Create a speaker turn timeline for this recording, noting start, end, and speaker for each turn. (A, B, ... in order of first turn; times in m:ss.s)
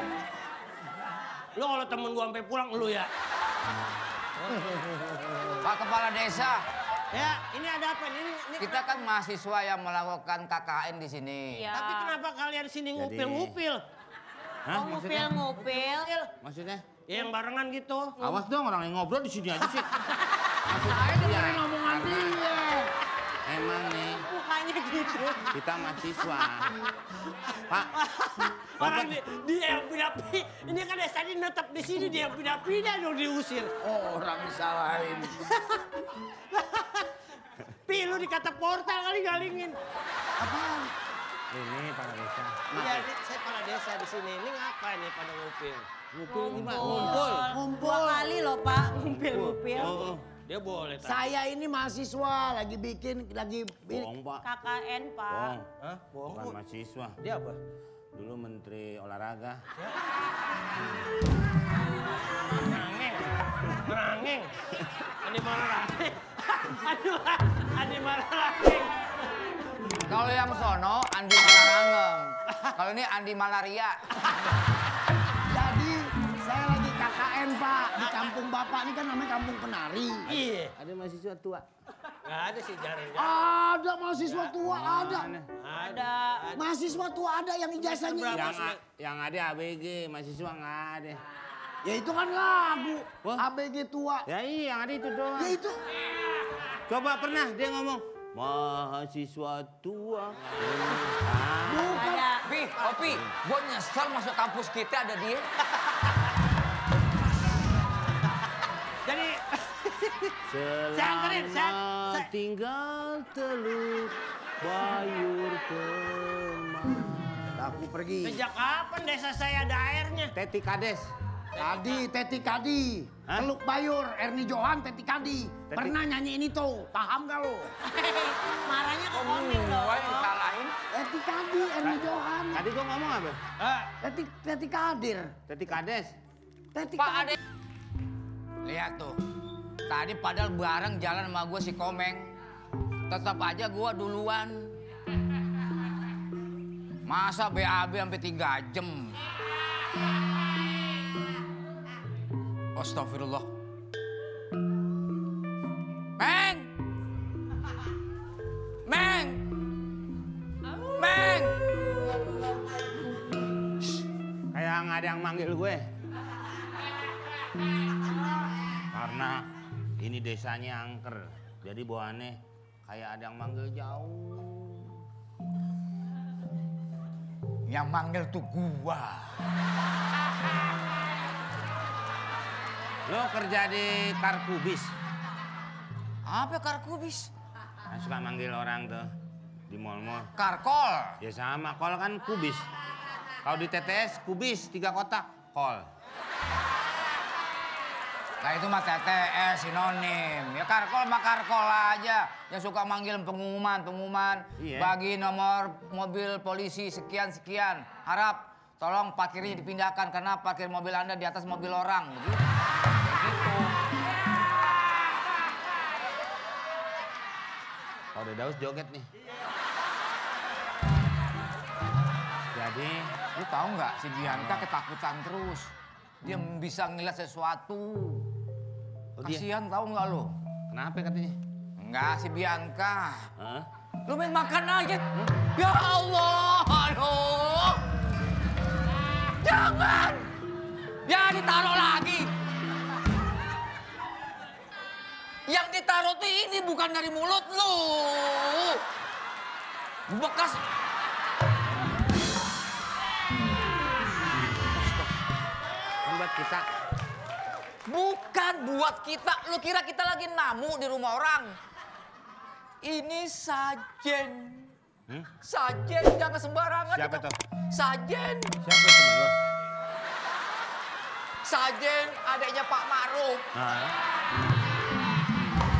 0:01.6-0:03.1 A
0:04.4-0:04.9 A
0:05.6-0:06.6 B
0:07.1-0:08.9 A
0:08.6-0:11.7 B
0:11.7-0:13.8 A
0:13.0-0:13.6 C
0:14.7-0:15.4 C
0:14.7-0:16.1 D
0:15.6-0:16.3 A
0:16.4-0:16.8 C
0:17.1-0:18.2 A
0:18.2-0:19.9 C
0:20.7-0:22.4 C
0:20.7-0:22.9 E
0:23.4-0:24.3 C
0:24.3-0:25.5 D
0:25.5-0:26.7 C
0:28.0-0:33.7 A
0:28.8-0:29.2 C
0:33.8-0:35.5 E
0:35.5-0:35.8 A
0:36.5-0:37.1 A
0:37.9-0:39.8 A
0:40.4-0:40.9 E
0:41.5-0:43.1 C
0:42.7-0:45.9 A
0:46.1-0:47.6 C
0:46.3-0:47.0 D
0:46.7-0:47.6 A
0:46.8-0:48.4 E
0:47.8-0:49.8 D
0:48.8-0:50.2 C
0:49.7-0:51.2 A
0:51.0-0:54.1 E
0:53.9-0:54.4 C
0:54.4-0:55.4 D
0:55.3-0:55.6 C
0:55.5-0:56.6 A
0:56.2-0:57.2 C
0:57.2-0:57.6 A
0:58.1-0:59.6 C
1:02.4-1:04.5 A
1:05.2-1:09.0 A
1:10.1-1:14.0 B
1:15.5-1:20.3 E
1:18.0-1:18.3 A
1:20.3-1:21.7 C
1:20.3-1:20.7 A
1:22.2-1:23.4 A
1:23.2-1:25.3 E
1:24.6-1:25.5 C
1:25.6-1:26.6 A
1:26.6-1:28.5 E
1:27.8-1:28.8 A
1:28.3-1:31.2 C
1:31.8-1:34.3 E
1:34.3-1:35.6 C
1:35.4-1:35.8 E
1:36.9-1:41.9 C
1:41.6-1:42.3 E
1:42.4-1:45.5 B
1:49.1-1:50.3 A
1:50.4-1:57.2 C
1:50.9-1:52.3 A
1:57.5-1:58.4 E
1:58.2-2:00.3 A
2:00.3-2:01.1 C
2:01.6-2:02.0 A
2:01.6-2:07.7 E
2:05.7-2:06.0 C
2:07.9-2:10.3 D
2:09.1-2:10.8 B
2:10.9-2:12.6 E
2:11.8-2:13.4 C
2:13.6-2:13.9 A
2:14.0-2:15.4 E
2:15.5-2:16.1 C
2:16.7-2:17.4 E
2:17.0-2:17.4 B
2:18.6-2:19.2 B
2:19.9-2:22.3 B
2:23.1-2:24.7 B
2:27.1-2:29.2 B
2:32.8-2:33.5 B
2:36.2-2:36.7 B
2:38.9-2:39.4 B
2:41.0-2:41.6 B
2:44.5-2:45.9 C
2:48.9-2:49.5 C
2:50.0-2:55.0 C
2:57.7-2:59.4 B
3:03.1-3:04.9 C
3:06.2-3:07.3 B
3:07.9-3:09.1 C
3:09.7-3:10.3 C
3:10.4-3:11.2 B
3:11.2-3:12.7 C
3:13.4-3:15.9 C
3:18.4-3:32.4 B
3:24.6-3:24.9 C
3:33.0-3:33.7 B
3:38.2-3:39.1 C
3:42.5-3:43.2 C
3:43.4-3:45.7 B
3:44.2-3:44.7 C
3:46.2-3:48.3 B
3:49.2-3:49.5 C
3:49.2-3:50.3 B
3:50.7-3:51.4 C
3:51.8-3:53.3 B
3:53.4-3:53.7 C
3:54.1-3:57.8 B
3:59.4-4:00.3 B
4:01.0-4:02.3 B
4:05.5-4:08.8 B
4:10.1-4:10.6 B
4:14.8-4:15.1 B
4:16.0-4:16.7 C
4:17.9-4:21.6 B
4:22.8-4:24.7 B
4:25.4-4:28.6 B
4:26.9-4:27.3 C
4:28.6-4:29.4 C
4:31.4-4:33.4 B
4:33.5-4:33.9 C